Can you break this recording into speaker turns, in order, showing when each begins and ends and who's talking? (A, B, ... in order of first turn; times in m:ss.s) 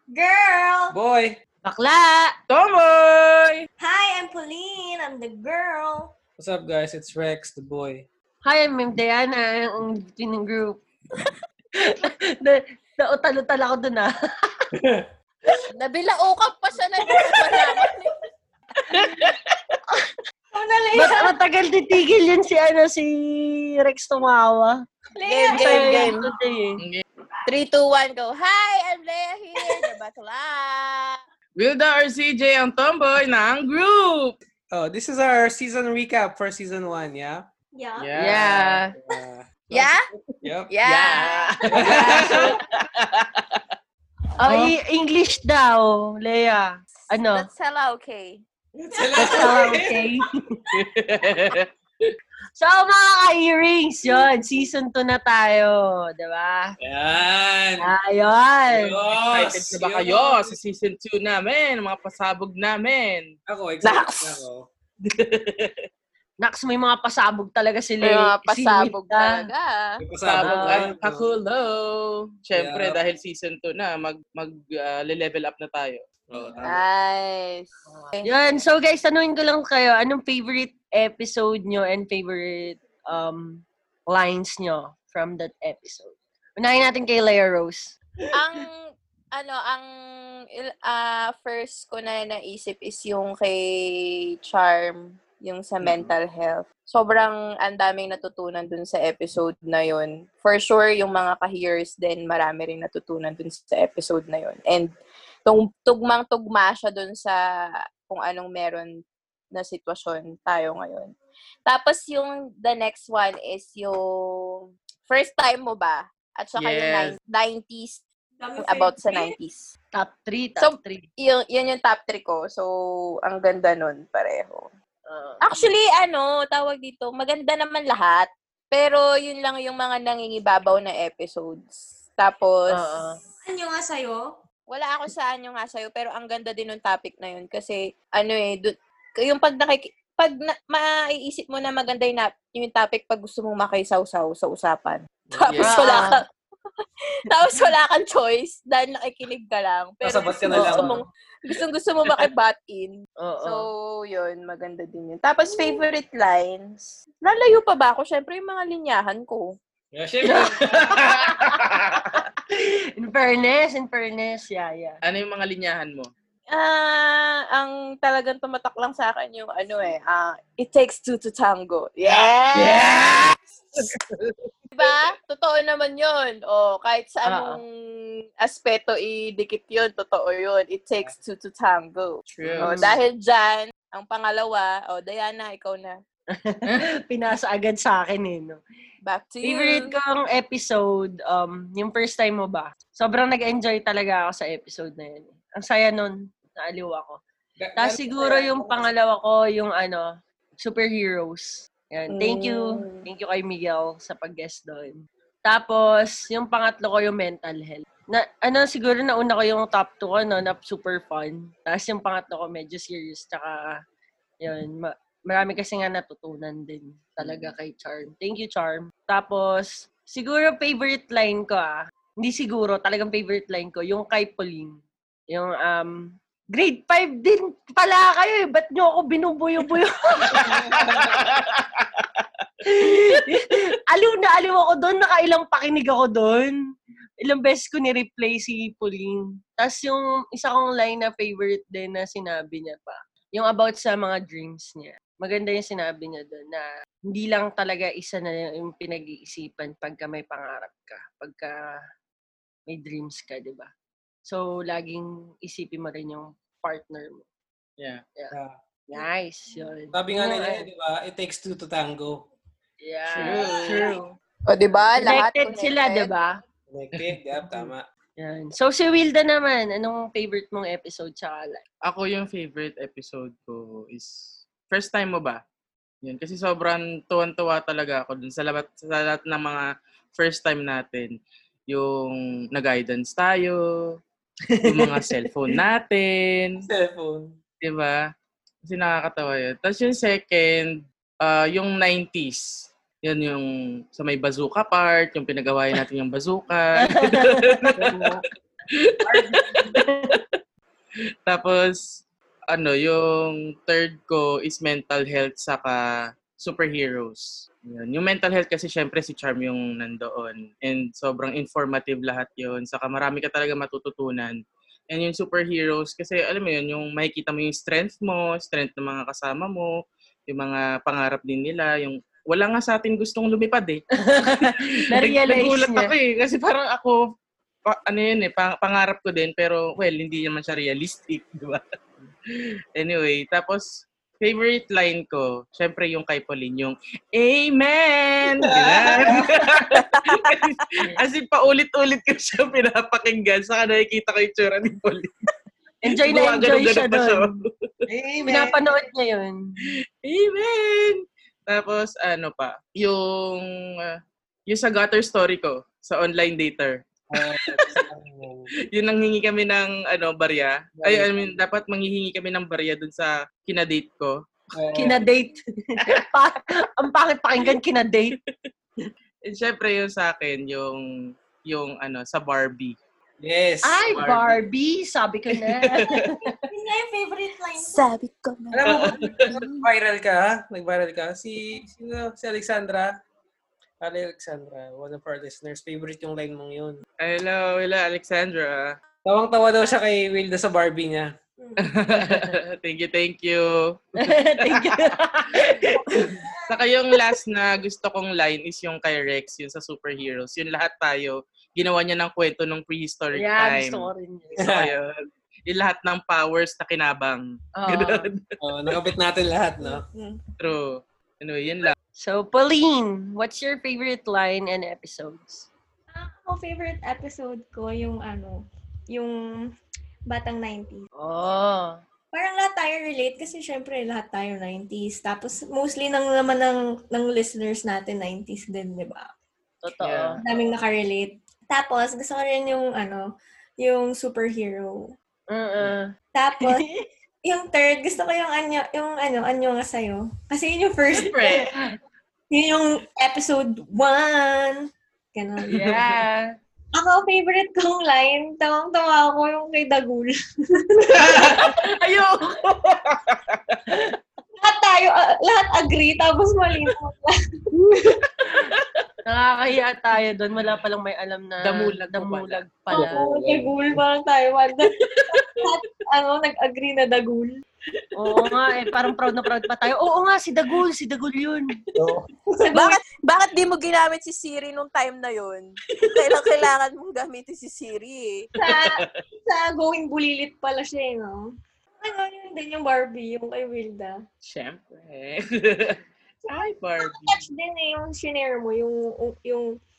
0:00.1-0:01.0 A
0:00.9-0:01.4 B
0:01.6-0:02.3 C
0:02.5-0:03.6 D
0:03.8-0:06.1 A
0:06.4-0:08.1 B
0:08.4-0:10.8 C
0:11.8-0:14.7 C
0:14.7-0:15.1 B
0:15.7-0:18.1 E
0:18.9-0:19.3 D
0:20.5-0:21.3 A
0:20.9-0:24.8 C
0:25.2-0:26.1 A
0:25.3-0:26.3 E
0:25.5-0:26.8 C
0:27.5-0:31.2 E
0:31.6-0:34.4 D
0:34.7-0:37.5 B
0:37.8-0:38.2 A
0:38.0-0:38.6 D
0:38.2-0:38.9 C
0:38.4-0:39.9 B
0:39.7-0:40.0 E
0:40.4-0:40.7 B
0:40.7-0:42.5 E
0:40.8-0:42.5 D
0:41.7-0:42.5 B
0:44.4-0:47.5 C
0:47.3-0:48.4 E
0:48.8-0:50.0 B
0:49.2-0:50.4 C
0:50.7-0:51.6 D
0:52.6-0:56.7 C
0:56.8-0:57.9 B
0:57.8-0:58.9 C
0:58.7-1:00.5 B
0:59.1-1:03.3 D
1:03.5-1:04.7 B
1:03.8-1:04.4 E
1:05.1-1:05.7 D
1:06.4-1:09.4 C
1:08.0-1:09.9 E
1:10.0-1:11.3 B
1:10.2-1:16.0 D
1:10.4-1:10.9 C
1:12.6-1:13.0 B
1:16.3-1:16.8 B
1:16.6-1:18.3 E
1:17.9-1:28.0 C
1:28.3-1:28.8 E
1:29.4-1:29.9 E
1:30.5-1:44.9 E
1:35.8-1:36.1 D
1:45.5-1:47.4 E
1:48.1-1:48.9 E
1:49.5-1:51.2 E
1:51.7-1:58.0 E
1:56.6-1:57.2 D
1:58.4-1:59.4 A
1:58.6-1:59.7 E
1:59.9-2:01.0 C
2:00.6-2:02.7 E
2:03.2-2:04.7 E
2:05.1-2:05.5 C
2:05.4-2:12.8 E
2:12.7-2:13.2 C
2:13.4-2:14.3 A
2:14.7-2:26.2 E
2:25.3-2:25.8 B
2:25.5-2:25.9 D
2:25.6-2:26.2 C
2:27.3-2:39.5 E
2:30.0-2:31.0 B
2:30.5-2:31.0 C
2:33.2-2:33.6 C
2:39.9-2:41.3 B
2:40.8-2:42.2 D
2:41.1-2:42.0 C
2:42.5-2:45.0 C
2:45.0-2:46.1 D
2:46.5-2:53.2 E
2:52.6-2:53.3 D
2:54.8-3:06.0 E
2:57.2-2:57.6 C
3:02.3-3:03.0 C
3:02.4-3:02.9 D
3:06.4-3:08.6 C
3:09.0-3:09.9 E
3:09.4-3:17.2 C
3:17.6-3:18.9 B
3:17.8-3:20.1 C
3:20.6-3:33.8 C
3:22.1-3:23.1 E
3:34.4-3:44.8 C
3:37.2-3:37.5 D
3:45.3-3:50.5 C
3:50.4-3:51.1 B
3:50.5-3:52.0 D
3:52.7-3:56.6 C
3:57.2-4:11.8 C
4:12.7-4:13.7 C
4:14.2-4:17.2 C
4:18.9-4:20.7 C
4:19.9-4:22.3 B
4:22.8-4:24.2 C
4:23.1-4:24.0 D
4:23.3-4:24.0 E
4:24.5-4:26.1 E
4:24.9-4:26.4 C
4:26.7-4:27.8 B
4:28.2-4:31.6 C
4:31.8-4:35.4 D
4:36.0-4:39.6 D
4:40.2-4:41.2 D
4:41.7-4:43.6 D
4:44.6-4:46.6 D
4:46.6-4:47.3 B
4:47.6-4:48.0 D
4:48.6-4:57.6 D
4:56.9-4:57.3 C
4:57.8-4:58.2 B
4:58.8-4:59.6 D
4:59.1-5:00.1 C
5:01.3-5:14.4 D
5:14.9-5:19.7 D
5:20.3-5:27.0 D
5:24.1-5:25.9 C
5:27.7-5:31.6 D
5:32.8-5:45.1 D
5:38.4-5:39.4 B
5:40.0-5:40.4 E
5:45.8-5:47.3 C
5:46.0-5:47.4 D
5:47.9-5:48.6 B
5:48.2-5:49.4 C
5:50.0-5:53.9 D
5:54.5-5:56.8 D
5:57.1-5:58.5 B
5:58.7-6:04.2 D
6:00.8-6:01.1 B
6:04.6-6:05.0 B
6:04.8-6:08.2 C
6:09.2-6:10.9 D
6:11.4-6:12.8 D
6:13.2-6:13.9 B
6:13.6-6:16.2 C
6:13.9-6:14.4 D
6:15.8-6:16.0 D
6:16.5-6:17.8 A
6:17.6-6:18.6 E
6:18.5-6:22.9 B
6:18.6-6:19.4 D
6:23.8-6:26.8 B
6:27.0-6:28.8 D
6:29.0-6:31.1 B
6:31.4-6:31.7 A
6:31.6-6:34.8 D
6:34.0-6:35.8 C
6:35.5-6:44.9 D
6:36.0-6:36.3 A
6:43.2-6:44.5 C
6:45.5-6:48.7 D
6:47.6-6:48.1 C
6:48.4-6:49.8 B
6:49.6-6:50.2 A
6:50.4-6:51.7 D
6:52.0-6:55.5 C
6:56.0-6:59.2 A
7:00.1-7:00.9 A
7:01.0-7:01.7 C
7:02.1-7:09.1 A
7:09.6-7:10.2 C
7:09.8-7:10.2 D
7:10.2-7:13.1 A
7:13.6-7:14.9 A
7:15.3-7:16.8 C
7:16.2-7:16.6 A
7:17.2-7:21.5 A
7:20.9-7:21.8 D
7:22.3-7:25.6 A
7:25.5-7:26.3 C
7:26.7-7:30.9 A
7:31.0-7:33.7 D
7:34.4-7:37.1 A
7:39.1-7:43.0 C
7:41.4-7:42.5 D
7:42.8-7:43.8 B
7:42.8-7:47.4 A
7:48.0-7:51.5 C
7:51.8-7:52.5 B
7:52.5-7:52.8 A
7:52.5-7:58.3 E
7:58.4-8:01.2 A
7:58.6-7:58.8 D
8:01.8-8:04.0 A
8:04.3-8:07.2 D
8:06.8-8:09.5 A